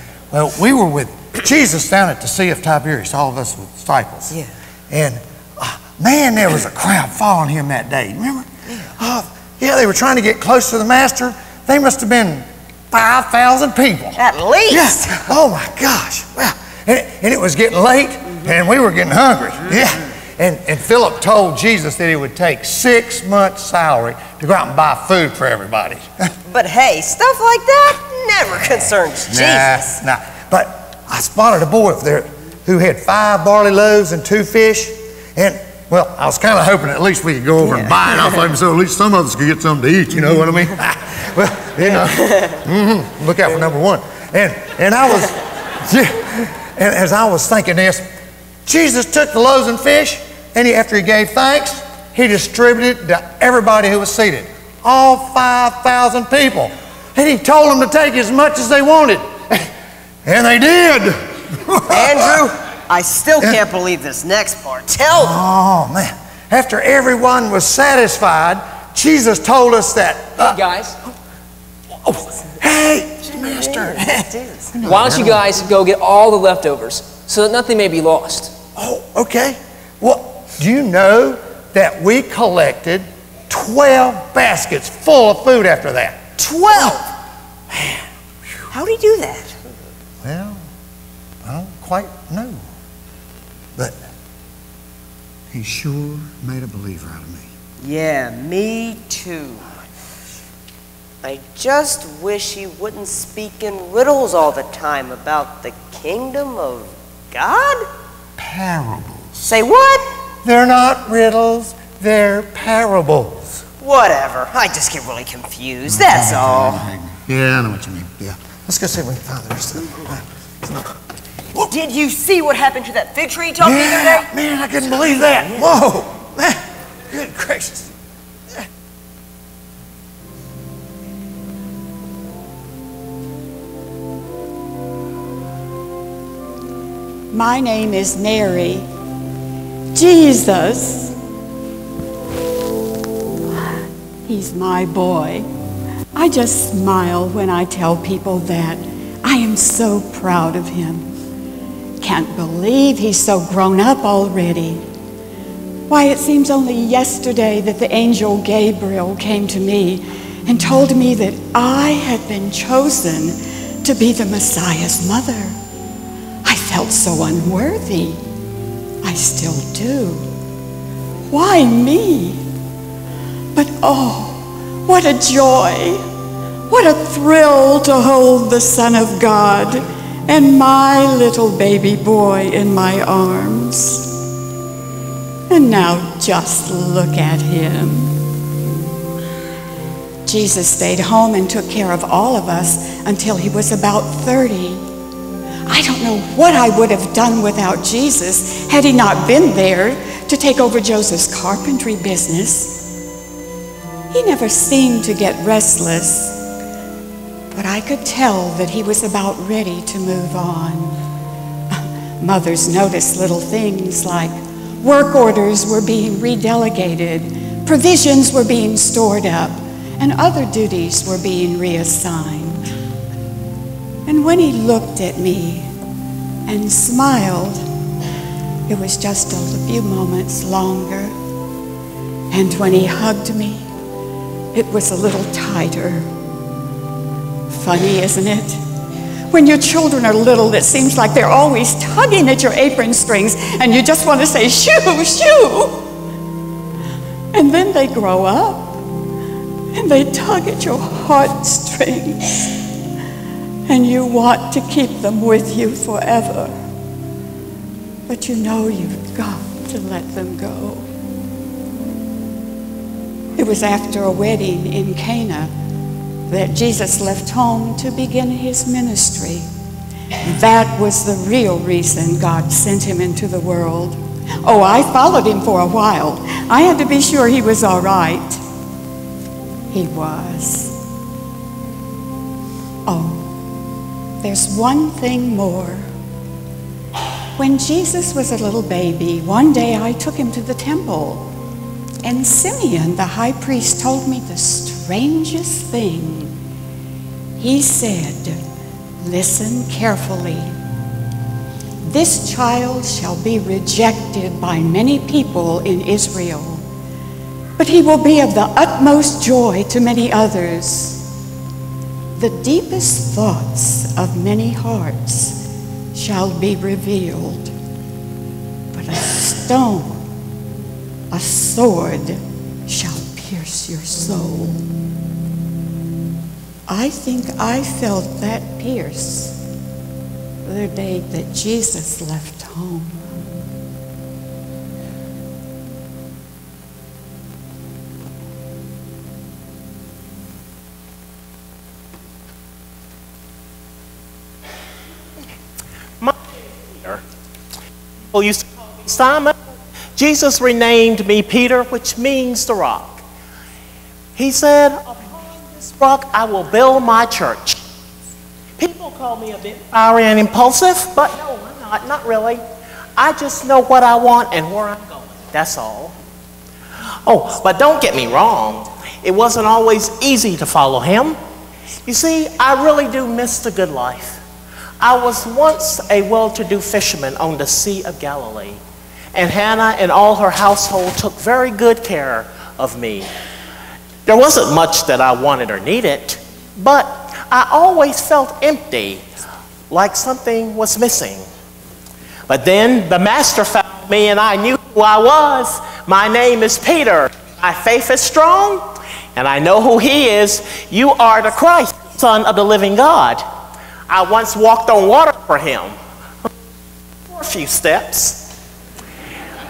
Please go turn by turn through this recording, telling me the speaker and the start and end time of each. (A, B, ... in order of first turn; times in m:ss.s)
0:00.3-0:04.4 A
0:04.9-0:26.3 A
0:14.2-0:15.2 B
0:26.5-0:29.7 B
0:29.3-0:48.0 A
0:48.7-0:59.7 A
1:00.2-1:02.5 A
1:02.0-1:05.3 B
1:03.4-1:03.6 A
1:05.2-1:10.6 A
1:10.4-1:11.0 C
1:12.1-1:15.5 A
1:14.8-1:18.6 C
1:18.8-1:26.2 A
1:26.4-1:27.0 B
1:28.8-1:29.4 B
1:30.2-1:30.6 A
1:31.4-1:32.6 A
1:35.5-1:37.5 A
1:37.8-1:39.6 B
1:41.2-1:47.8 B
1:48.4-1:49.5 A
1:49.5-1:50.0 B
1:50.4-1:53.6 A
1:53.8-1:56.7 B
1:55.9-2:00.9 A
2:01.9-2:04.2 B
2:03.6-2:08.0 A
2:17.3-2:18.9 D
2:19.9-2:21.2 D
2:23.5-2:25.5 D
2:26.2-2:31.1 D
2:32.0-2:34.8 D
2:35.9-2:45.6 D
2:46.4-2:48.2 D
2:49.0-2:50.3 D
2:51.3-2:52.4 D
2:53.5-2:56.0 D
2:56.7-3:04.1 D
3:05.5-3:08.1 D
3:10.3-3:14.8 D
3:15.7-3:22.8 D
3:24.1-3:26.4 D
3:27.5-3:31.0 D
3:32.2-3:42.6 D
3:44.1-3:45.7 D
3:46.5-3:47.6 D
3:48.7-3:51.1 D
3:52.3-3:53.7 D
3:54.5-3:56.1 D
3:57.5-3:58.6 D
3:59.3-4:05.9 D
4:07.3-4:08.8 D
4:09.7-4:12.5 D
4:13.7-4:16.5 D
4:18.1-4:20.9 D
4:23.4-4:25.5 D
4:26.3-4:29.5 D
4:30.2-4:38.4 D
4:39.7-4:40.8 D
4:42.9-4:43.4 D
4:44.2-4:45.9 D
4:47.4-4:51.3 D
4:52.0-4:56.3 D
4:57.4-4:58.4 D
4:59.0-5:00.6 D
5:01.9-5:06.6 D
5:07.6-5:11.1 D
5:12.2-5:15.4 D
5:15.9-5:17.5 D
5:18.7-5:20.0 D
5:21.1-5:24.6 D
5:26.7-5:29.4 D
5:30.4-5:33.2 D
5:46.0-5:47.0 E
5:48.1-5:49.4 E
5:50.0-5:53.0 E
5:54.2-5:57.6 E
5:58.6-6:02.4 E
6:03.0-6:06.0 E
6:07.1-6:11.2 E
6:11.8-6:14.2 E
6:14.8-6:18.6 E
6:19.1-6:23.1 E
6:24.1-6:29.0 E
6:29.7-6:31.3 E
6:32.3-6:43.2 E
6:43.9-6:45.8 E
6:47.1-6:48.3 E